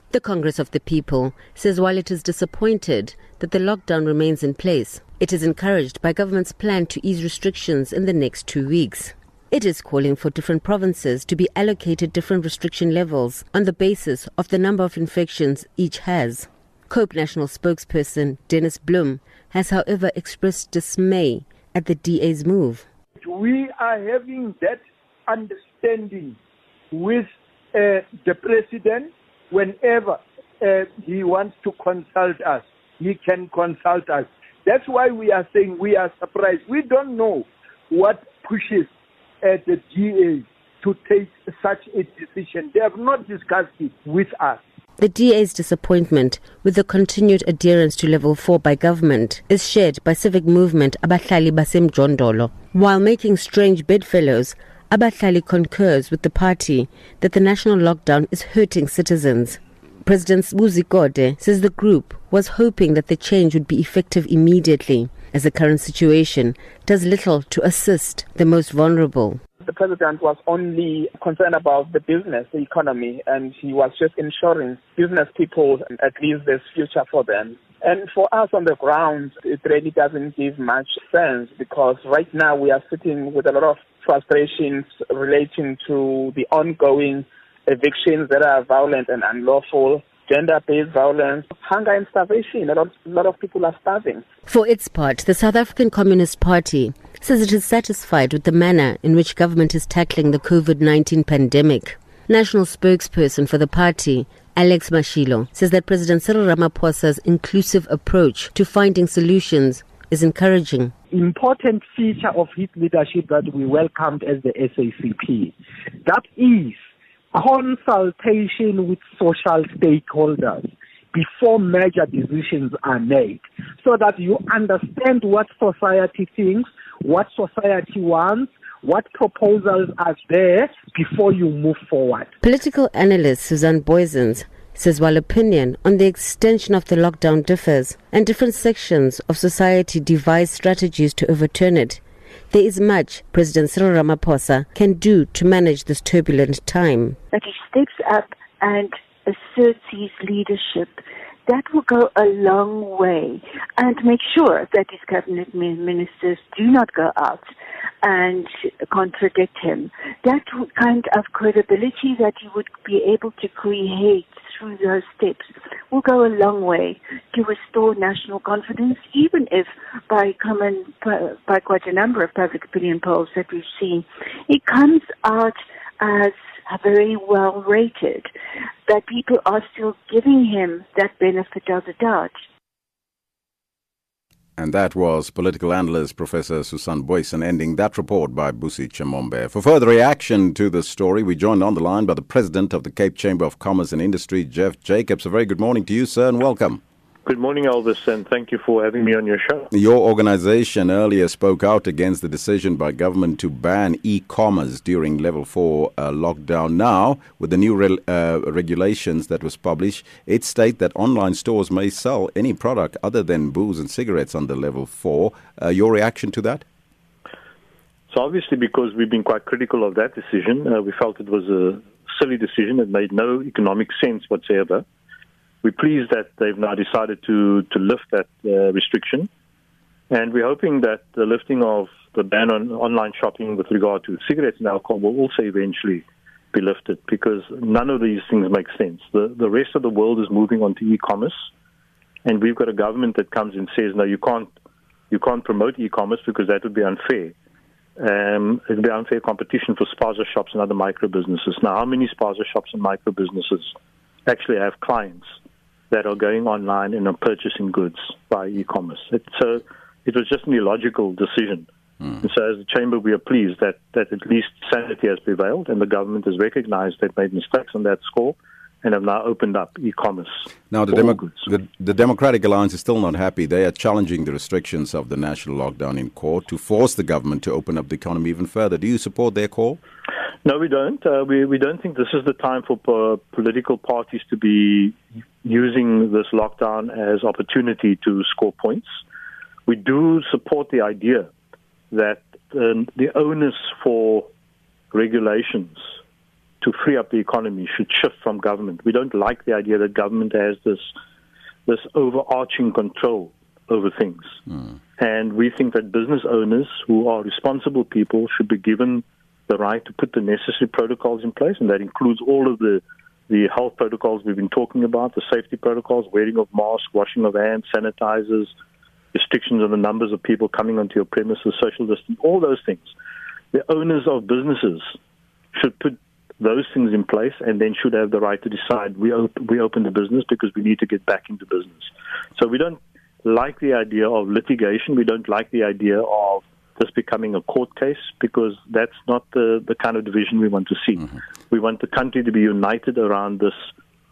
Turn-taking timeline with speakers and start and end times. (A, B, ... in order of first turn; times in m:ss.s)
0:00.1-0:22.8 A
0:23.2-0:26.4 B
0:26.9-0:38.9 B
0:39.4-0:44.6 B
0:45.0-1:09.4 A
1:09.6-1:34.2 C
1:34.4-1:50.9 A
1:51.1-1:55.5 D
1:56.0-1:56.8 D
1:57.3-2:12.3 D
2:12.4-2:27.2 A
2:27.3-2:37.4 E
2:38.0-2:58.3 E
2:58.9-3:02.4 E
3:04.6-3:16.8 F
3:17.2-3:19.7 G
3:19.7-3:36.6 F
3:38.1-3:44.8 G
3:45.6-3:49.3 G
3:50.1-4:01.3 G
4:02.2-4:04.5 G
4:05.1-4:07.3 G
4:08.0-4:13.7 G
4:14.2-4:15.3 G
4:15.9-4:21.7 G
4:22.2-4:31.4 G
4:30.7-4:39.8 F
4:40.4-4:48.9 G
4:49.7-4:51.3 G
4:51.9-4:54.3 G
4:54.9-4:55.8 G
4:56.6-5:00.9 G
5:01.7-5:04.4 G
5:05.0-5:18.5 G
5:19.1-5:22.9 G
5:23.5-5:24.9 G
5:25.5-5:43.7 G